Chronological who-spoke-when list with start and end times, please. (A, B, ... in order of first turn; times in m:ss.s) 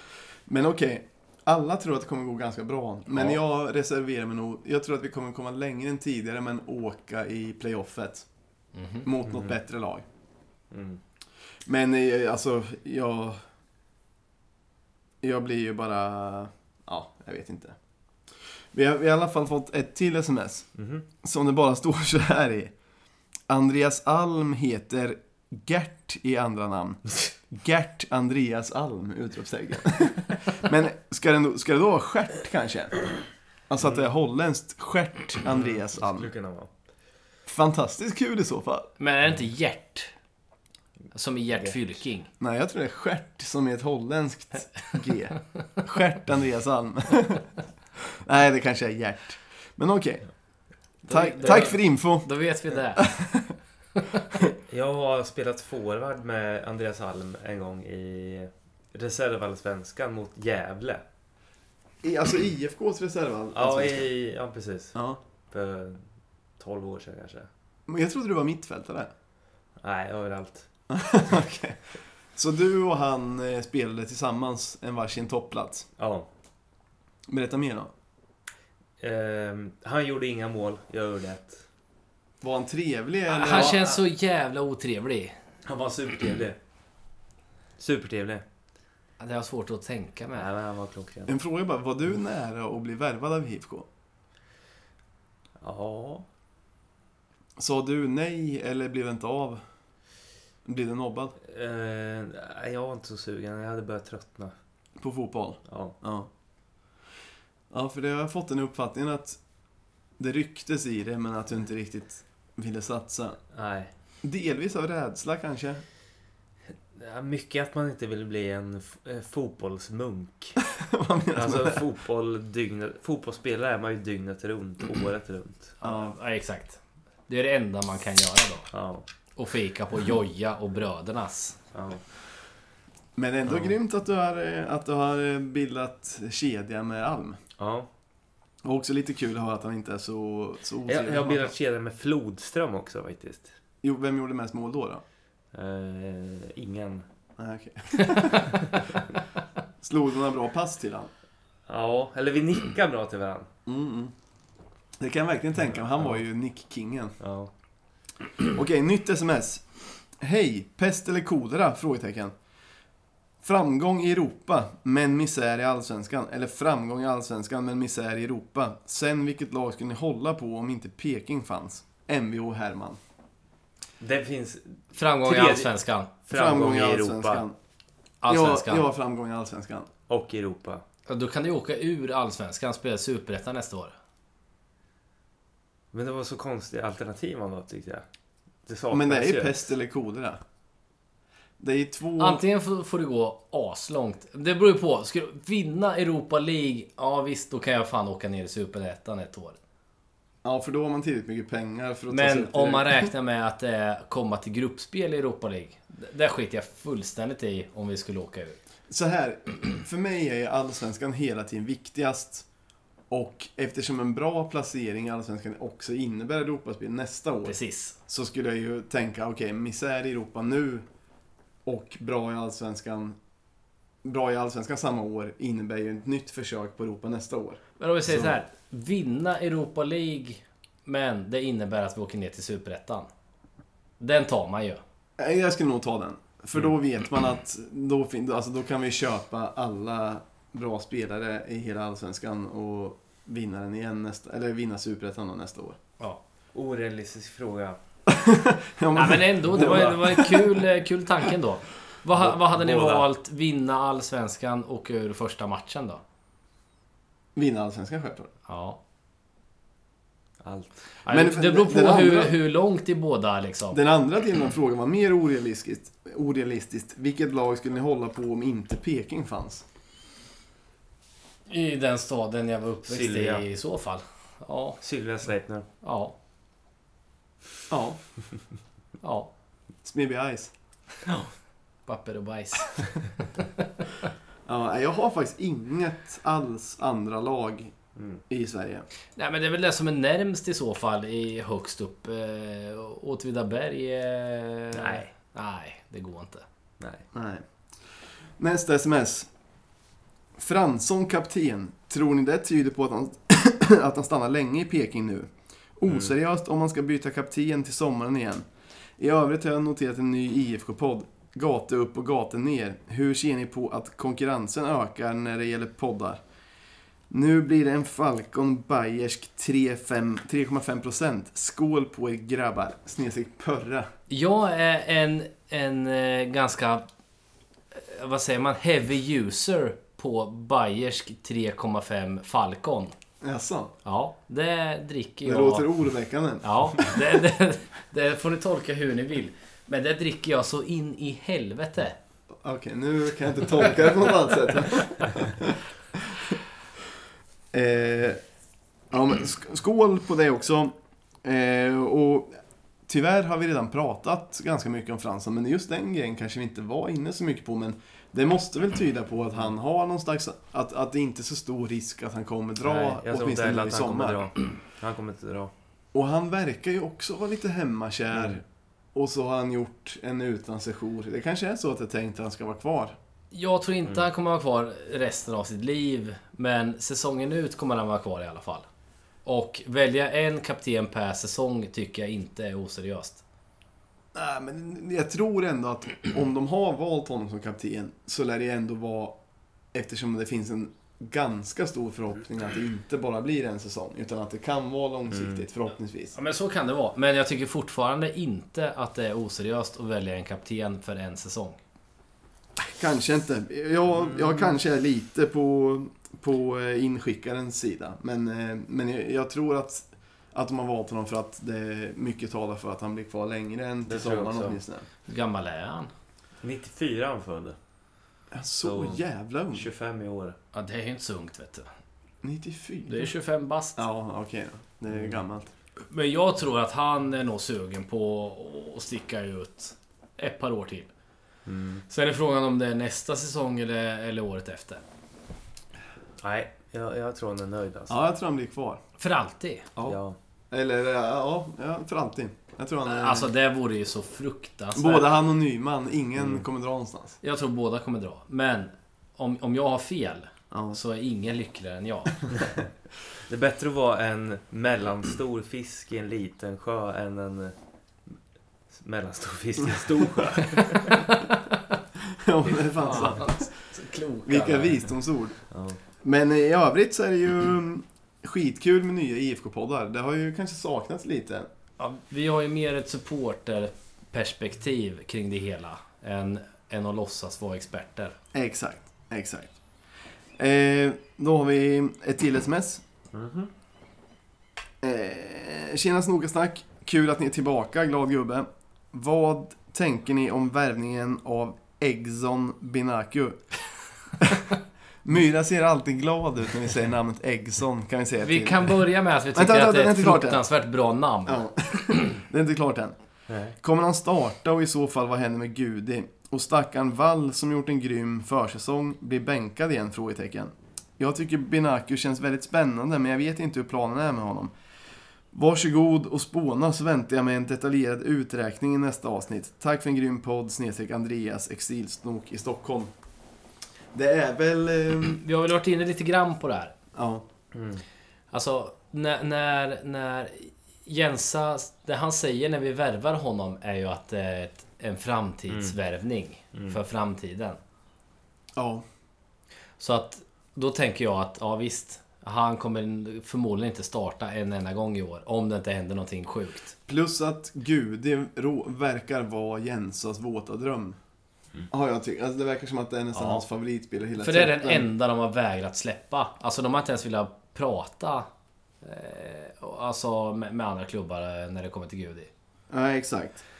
0:00.5-0:08.2 A
0:08.7-0:09.0 B
0:09.0-0:10.0 A
0:09.3-0:09.5 C
0:10.7-0:11.0 C
0:11.6-0:13.4 A
0:15.2-0:17.8 A
0:18.7-0:20.7 A
0:20.7-0:21.0 C
0:21.2-0:22.7 A
0:23.5-0:33.0 A
0:33.7-0:36.3 A
0:33.8-0:34.0 C
0:35.5-0:36.7 C
0:37.4-0:38.9 A
0:39.0-0:40.1 B
0:41.1-0:42.3 B
0:42.4-0:47.5 A
0:48.2-0:50.3 A
0:51.1-0:52.3 A
0:51.1-0:53.1 B
0:52.9-0:53.5 A
0:54.7-1:01.0 C
1:02.0-1:04.1 A
1:03.5-1:05.0 C
1:04.9-1:05.2 A
1:05.5-1:06.0 C
1:06.6-1:07.5 C
1:07.9-1:09.1 A
1:09.8-1:10.7 C
1:10.9-1:11.8 A
1:12.3-1:15.9 A
1:16.0-1:16.3 C
1:17.3-1:17.9 A
1:19.0-1:21.6 C
1:22.4-1:23.8 A
1:23.3-1:25.4 B
1:23.4-1:24.0 C
1:25.6-1:26.6 C
1:27.8-1:28.4 C
1:29.2-1:30.5 B
1:30.3-1:31.3 C
1:31.3-1:33.9 A
1:35.6-1:36.2 C
1:37.6-1:39.6 A
1:40.6-1:41.4 A
1:41.4-1:44.5 C
1:45.0-1:46.3 A
1:45.7-1:46.0 C
1:47.7-1:49.4 A
1:50.2-1:53.4 A
1:53.5-1:53.9 C
1:54.2-1:55.8 A
1:57.0-2:00.6 C
2:00.7-2:01.8 A
2:01.3-2:05.8 C
2:05.8-2:08.7 B
2:05.8-2:06.1 A
2:08.7-2:09.0 C
2:09.4-2:11.6 B
2:11.7-2:12.0 C
2:13.2-2:17.4 A
2:13.5-2:13.7 C
2:17.6-2:17.9 C
2:18.6-2:21.5 A
2:20.8-2:23.5 C
2:23.8-2:25.0 A
2:25.5-2:27.0 C
2:27.4-2:28.6 A
2:29.8-2:31.1 A
2:31.7-2:33.5 C
2:33.6-2:34.1 A
2:35.0-2:37.2 A
2:35.7-2:36.2 C
2:37.2-2:37.5 C
2:38.5-2:39.7 A
2:40.2-2:42.3 A
2:43.4-2:53.0 A
2:54.0-2:55.7 C
2:54.9-2:56.1 B
2:56.2-2:57.4 C
2:56.3-2:57.6 A
2:58.2-2:58.9 B
2:58.3-2:59.9 A
3:00.1-3:00.8 C
3:01.1-3:03.9 B
3:05.9-3:08.0 C
3:08.6-3:09.6 C
3:08.9-3:10.4 A
3:11.6-3:12.4 A
3:12.2-3:19.6 B
3:20.4-3:23.1 A
3:22.1-3:28.6 B
3:28.9-3:32.4 A
3:33.1-3:37.6 A
3:37.4-3:38.0 B
3:38.1-3:40.8 A
3:41.6-3:43.2 A
3:44.0-3:48.3 A
3:47.8-3:53.1 B
3:54.0-3:54.8 B
3:55.2-4:05.8 A
4:06.5-4:07.8 C
4:08.1-4:10.5 A
4:09.0-4:16.0 B
4:09.5-4:10.0 C
4:12.1-4:13.1 C
4:17.3-4:18.3 A
4:18.5-4:18.8 B
4:20.4-4:20.8 C
4:21.0-4:23.8 B
4:21.1-4:22.4 A
4:23.7-4:29.6 A
4:31.5-4:34.8 B
4:32.9-4:33.4 C
4:34.8-4:35.7 C
4:35.8-4:36.1 B
4:37.7-4:38.0 A
4:39.0-4:39.3 B
4:39.8-4:40.5 A
4:41.9-4:43.6 B
4:44.4-4:47.7 A
4:48.0-4:48.2 C
4:48.3-4:48.9 A
4:49.2-4:56.4 B
4:54.7-4:55.1 C
4:57.1-4:59.3 A
5:00.4-5:08.5 A
5:09.0-5:16.2 A
5:17.1-5:23.9 A
5:24.1-5:26.9 B
5:27.7-5:32.9 B
5:33.2-5:33.7 A
5:33.8-5:35.7 B
5:35.2-5:36.9 A
5:36.4-5:42.0 B
5:42.4-5:46.4 A
5:47.5-5:48.2 A
5:48.9-5:52.3 A
5:52.9-6:04.2 A
6:02.6-6:05.5 C
6:05.9-6:08.4 A
6:08.9-6:13.0 A
6:13.3-6:18.6 B
6:19.2-6:23.2 B
6:24.1-6:29.2 A
6:29.7-6:36.1 A
6:35.1-6:35.4 C
6:36.1-6:41.6 B
6:42.6-6:54.8 A
6:53.8-6:54.6 C
6:55.0-6:55.9 B
6:56.4-6:57.6 C
6:58.3-6:59.7 A
6:58.6-6:59.0 C
6:59.5-7:00.4 C
7:00.5-7:01.7 B
7:02.2-7:03.1 A
7:02.9-7:03.8 B
7:03.8-7:05.5 A
7:04.9-7:05.2 C
7:05.9-7:10.9 B
7:11.4-7:11.8 C
7:11.9-7:14.8 B
7:16.2-7:18.0 C
7:17.9-7:18.8 A
7:19.0-7:19.7 B
7:19.8-7:20.2 C
7:20.5-7:23.3 A
7:22.8-7:25.1 B
7:24.7-7:27.2 A
7:26.2-7:26.4 C
7:27.2-7:32.2 B
7:30.5-7:30.8 A
7:33.3-7:37.5 C
7:38.7-7:41.1 C
7:40.7-7:41.3 B
7:42.1-7:43.5 A
7:42.8-7:44.8 B
7:44.2-7:45.4 A
7:45.5-7:45.8 C
7:46.0-7:51.5 A
7:51.8-7:58.2 B
7:58.3-7:59.5 A
8:00.4-8:02.8 A
8:03.1-8:03.5 C
8:04.8-8:13.4 A
8:14.2-8:14.5 A
8:15.0-8:18.7 A
8:18.2-8:21.5 B
8:19.3-8:20.4 A
8:21.2-8:23.0 A
8:23.3-8:23.5 C
8:23.6-8:34.5 A
8:35.3-8:42.9 A
8:43.9-8:45.2 A
8:45.2-8:46.7 B
8:46.9-8:47.2 A
8:47.5-8:47.8 C
8:48.3-8:57.6 B
8:58.6-8:58.8 A
8:59.8-9:06.7 B
9:06.9-9:11.0 A
9:11.7-9:14.9 A
9:13.1-9:13.4 B
9:14.2-9:18.3 B
9:18.8-9:22.3 B
9:22.7-9:23.4 A